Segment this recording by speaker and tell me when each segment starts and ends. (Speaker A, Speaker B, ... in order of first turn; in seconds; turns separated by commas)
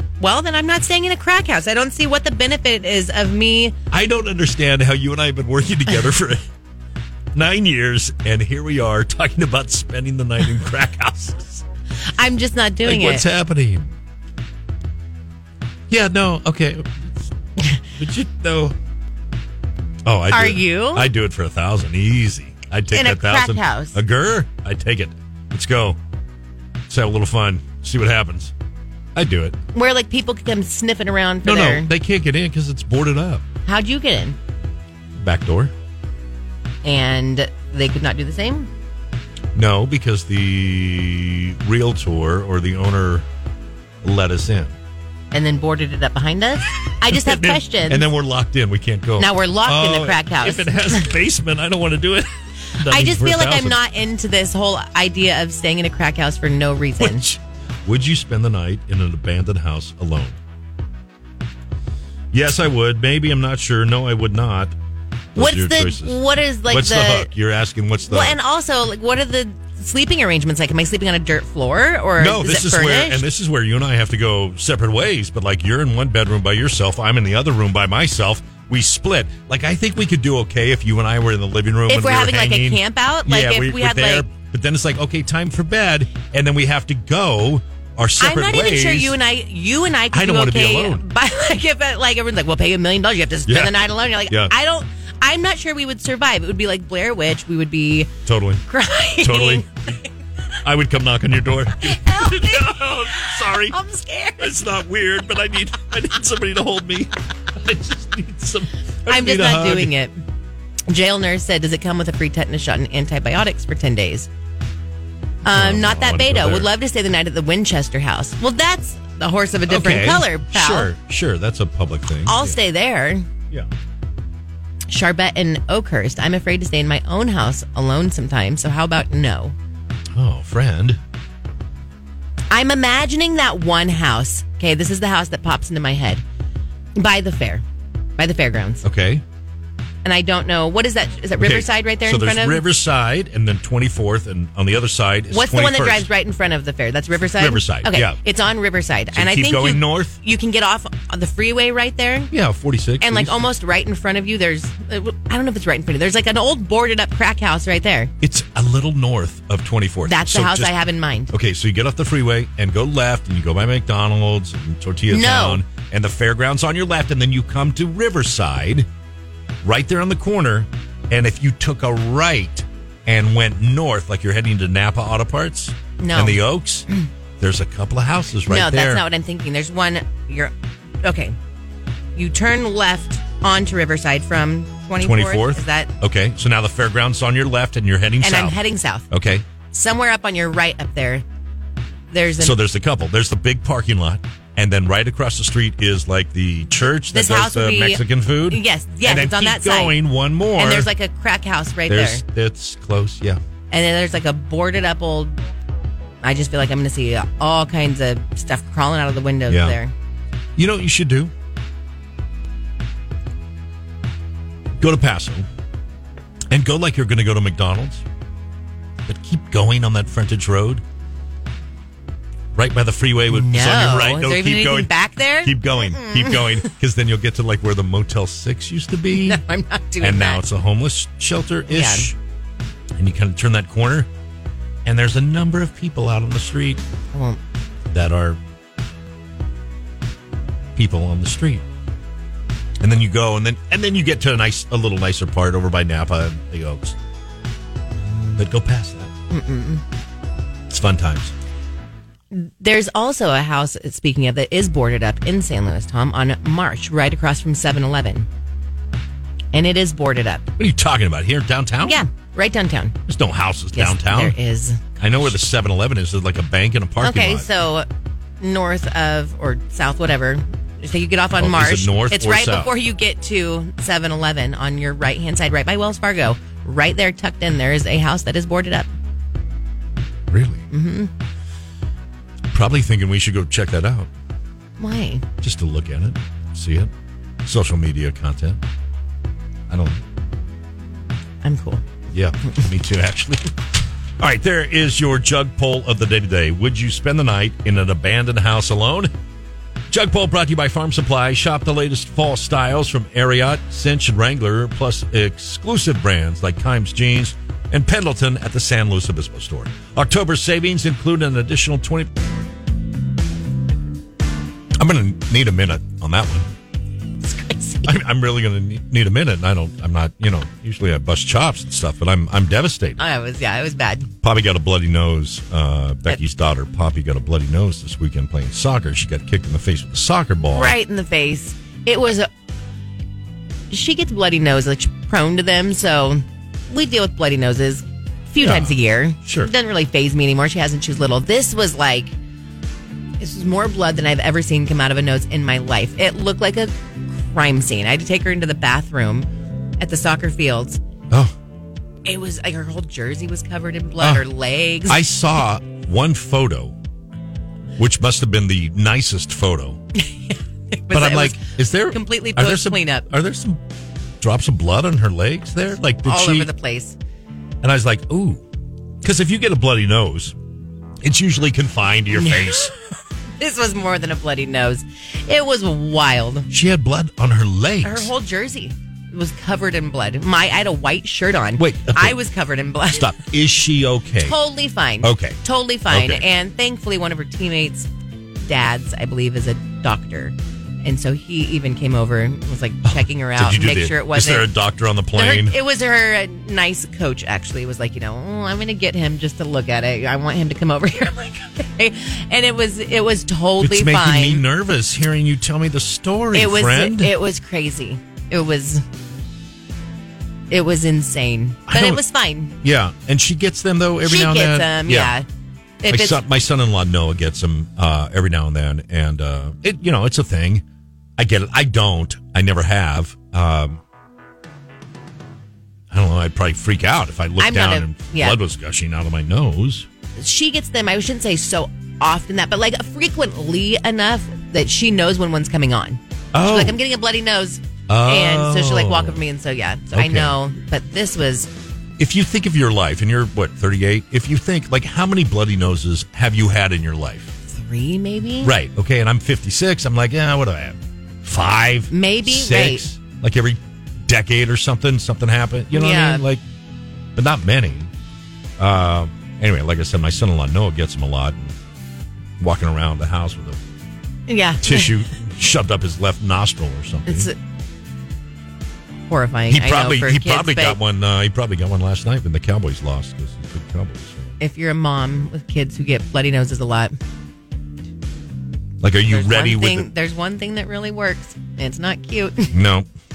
Speaker A: 0.2-3.8, Speaker B: 3.9-6.4, Speaker B: 7.3-11.6, Speaker A: 12.2-13.2, Speaker B: 12.8-13.9, Speaker B: 15.9-17.3, Speaker B: 18.0-18.8, Speaker B: 20.0-26.0, Speaker A: 20.3-21.1, Speaker A: 22.9-24.0, Speaker B: 26.9-28.5, Speaker B: 29.1-29.6, Speaker A: 29.7-31.9, Speaker B: 31.4-33.4, Speaker A: 33.6-34.4, Speaker B: 35.1-35.7, Speaker A: 36.8-38.7, Speaker B: 39.5-43.2, Speaker B: 44.0-44.7, Speaker A: 45.3-48.1, Speaker B: 47.1-53.8, Speaker A: 49.2-51.1, Speaker A: 52.8-57.3, Speaker B: 57.0-60.4, Speaker B: 62.3-64.7, Speaker B: 65.3-68.4, Speaker A: 65.4-67.3, Speaker A: 68.1-73.2, Speaker B: 72.2-89.2, Speaker A: 81.9-84.2, Speaker A: 88.2-98.1, Speaker B: 90.1-91.0, Speaker B: 93.5-94.5, Speaker B: 98.2-98.6, Speaker A: 98.7-100.0, Speaker B: 99.2-99.7, Speaker B: 100.6-103.8, Speaker A: 101.9-102.7, Speaker A: 103.5-104.5, Speaker B: 104.4-109.9, Speaker A: 109.1-110.2, Speaker A: 110.9-114.3, Speaker A: 115.4-120.9, Speaker B: 115.5-116.7, Speaker B: 119.7-122.6, Speaker A: 122.2-123.3, Speaker A: 124.9-129.6, Speaker B: 130.1-131.0, Speaker A: 132.5-136.2, Speaker A: 136.9-137.6, Speaker A: 138.2-138.8, Speaker B: 138.8-139.2, Speaker A: 140.0-142.6, Speaker B: 141.4-146.1, Speaker A: 145.3-152.3, Speaker B: 147.4-148.2, Speaker B: 149.1-150.2, Speaker B: 152.3-153.4, Speaker A: 153.0-158.1, Speaker B: 158.2-160.8, Speaker A: 160.1-161.3, Speaker B: 161.3-168.9, Speaker A: 165.1-165.6, Speaker B: 169.6-176.9, Speaker A: 176.0-176.4, Speaker B: 177.4-179.0, Speaker A: 178.5-181.4, Speaker A: 182.1-185.9, Speaker B: 185.0-188.6, Speaker A: 188.2-189.1, Speaker B: 189.1-189.4, Speaker A: 189.7-191.2, Speaker A: 192.1-192.6, Speaker B: 192.4-200.9, Speaker A: 197.1-199.9, Speaker A: 200.5-202.2, Speaker B: 201.9-203.4, Speaker A: 203.7-205.4, Speaker A: 206.2-209.9, Speaker B: 209.5-209.8, Speaker B: 210.6-211.3, Speaker B: 214.8-215.5, Speaker B: 216.5-218.0, Speaker B: 219.1-220.8, Speaker B: 222.5-224.9, Speaker A: 223.3-226.7, Speaker B: 225.4-229.4, Speaker A: 229.1-230.4, Speaker B: 230.0-232.2, Speaker A: 231.7-232.1, Speaker B: 232.9-234.1, Speaker B: 234.8-236.8, Speaker A: 237.1-237.4, Speaker B: 237.9-238.4, Speaker B: 240.7-241.6, Speaker B: 242.8-246.9, Speaker A: 248.0-248.4, Speaker B: 248.4-249.1, Speaker A: 249.3-249.8, Speaker B: 250.7-251.3, Speaker A: 252.3-258.3, Speaker A: 259.5-260.5, Speaker B: 260.6-262.0, Speaker A: 261.8-263.0, Speaker B: 263.1-264.4, Speaker A: 263.7-264.9, Speaker B: 265.0-267.5, Speaker A: 267.0-267.9, Speaker A: 268.4-278.9, Speaker B: 271.3-272.7, Speaker B: 280.3-280.6, Speaker A: 280.7-281.1, Speaker B: 282.5-284.1, Speaker A: 284.8-285.2, Speaker B: 285.4-286.9, Speaker B: 287.4-288.6, Speaker B: 289.7-290.0, Speaker A: 291.4-291.8, Speaker B: 292.1-293.5, Speaker B: 294.2-299.1, Speaker B: 299.9-312.1, Speaker B: 314.8-316.5, Speaker A: 317.2-317.9, Speaker B: 317.8-323.0, Speaker A: 323.0-324.1, Speaker B: 324.2-330.8, Speaker A: 330.4-332.3, Speaker A: 333.7-342.1, Speaker B: 338.4-339.5, Speaker A: 343.2-350.8, Speaker A: 352.0-355.0, Speaker B: 354.0-354.2, Speaker B: 354.9-356.8, Speaker B: 357.8-359.8, Speaker A: 360.0-363.1, Speaker B: 360.9-363.6, Speaker B: 364.2-366.5, Speaker A: 366.0-367.0, Speaker B: 367.6-368.4, Speaker B: 369.0-370.4, Speaker B: 371.0-372.7, Speaker A: 372.1-372.5, Speaker A: 373.4-376.5, Speaker B: 376.5-378.1, Speaker A: 377.8-383.1, Speaker B: 381.6-382.2, Speaker B: 382.9-384.4, Speaker A: 384.2-387.9, Speaker B: 385.0-386.2, Speaker A: 388.4-394.5, Speaker B: 392.9-395.6, Speaker A: 395.1-404.4, Speaker B: 403.6-407.1, Speaker A: 406.3-408.8, Speaker A: 410.5-412.6, Speaker B: 411.7-412.0, Speaker B: 412.6-415.2, Speaker A: 414.0-415.2, Speaker A: 415.8-416.2, Speaker B: 415.9-420.6, Speaker B: 421.2-423.8, Speaker B: 425.9-429.9, Speaker A: 427.4-428.4, Speaker A: 430.2-441.5, Speaker B: 436.3-436.8, Speaker B: 437.9-439.2, Speaker B: 439.9-440.4, Speaker B: 442.0-447.3, Speaker A: 447.5-448.5, Speaker B: 448.4-456.4, Speaker A: 451.9-452.8, Speaker A: 455.7-456.2, Speaker B: 457.1-457.9, Speaker B: 458.6-461.5, Speaker B: 462.4-463.6, Speaker A: 464.3-465.0, Speaker B: 464.6-467.3, Speaker A: 467.1-467.4, Speaker A: 469.1-470.8, Speaker B: 469.5-474.4, Speaker A: 474.4-477.0, Speaker B: 478.8-479.9, Speaker A: 479.0-482.5, Speaker B: 482.5-482.9